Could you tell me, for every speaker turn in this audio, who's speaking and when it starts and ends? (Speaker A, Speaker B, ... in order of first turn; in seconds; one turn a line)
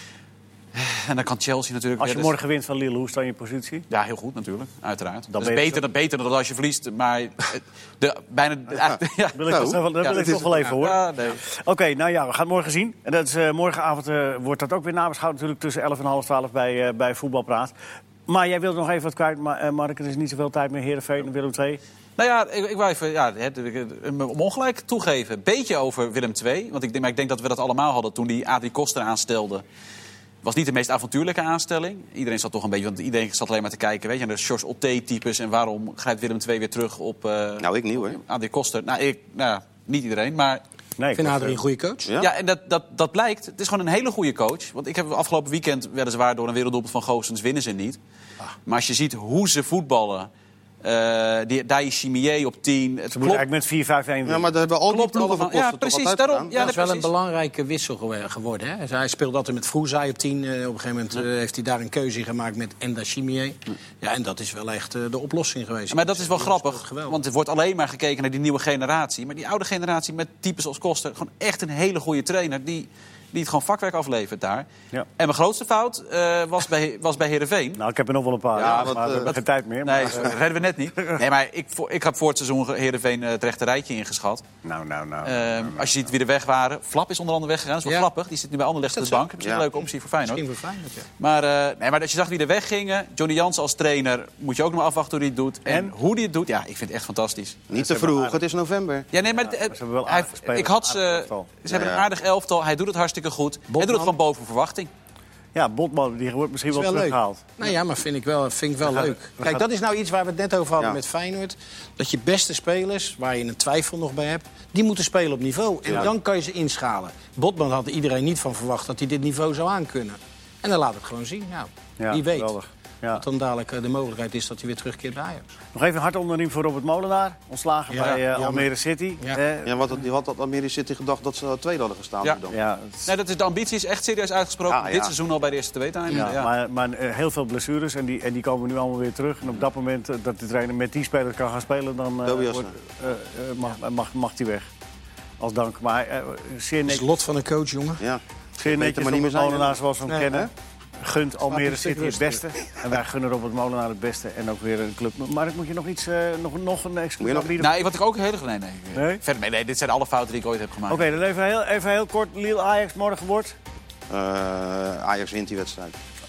Speaker A: 0.7-2.3
Speaker B: 2.0-3.9
Speaker A: 3.9-11.4
Speaker B: 5.3-5.8
Speaker C: 8.8-9.8
Speaker B: 9.3-17.7
Speaker B: 18.3-21.8
Speaker A: 22.2-29.6
Speaker A: 30.4-40.6
Speaker C: 37.6-38.2
Speaker B: 41.0-41.6
Speaker D: 41.1-42.1
Speaker C: 42.0-42.3
Speaker A: 42.2-48.0
Speaker A: 48.6-50.3
Speaker A: 50.8-53.4
Speaker B: 53.1-54.5
Speaker C: 54.2-56.5
Speaker A: 54.9-57.1
Speaker D: 56.5-67.2
Speaker A: 65.9-77.8
Speaker B: 77.8-80.3
Speaker C: 78.5-79.3
Speaker A: 78.5-84.4
Speaker B: 84.6-86.1
Speaker A: 85.2-90.4
Speaker D: 88.9-89.2
Speaker C: 89.4-89.7
Speaker D: 89.8-91.1
Speaker A: 91.2-97.6
Speaker B: 95.7-95.9
Speaker C: 97.7-99.1
Speaker B: 97.7-98.4
Speaker A: 99.1-104.9
Speaker B: 99.3-101.5
Speaker C: 101.7-102.0
Speaker D: 103.7-104.1
Speaker B: 105.5-107.5
Speaker D: 106.7-122.5
Speaker B: 108.9-109.6
Speaker C: 115.8-116.1
Speaker B: 122.0-123.2
Speaker D: 123.1-125.5
Speaker B: 125.7-129.7
Speaker D: 127.9-128.7
Speaker C: 129.6-132.6
Speaker B: 132.5-133.1
Speaker A: 133.1-136.5
Speaker C: 134.7-135.1
Speaker B: 136.1-144.7
Speaker C: 142.2-142.7
Speaker B: 145.4-147.0
Speaker D: 146.8-148.0
Speaker C: 148.0-149.8
Speaker B: 148.6-157.7
Speaker D: 150.1-150.4
Speaker D: 151.5-152.5
Speaker C: 157.2-157.5
Speaker A: 157.6-161.1
Speaker B: 158.9-159.2
Speaker B: 160.9-163.6
Speaker C: 164.1-165.9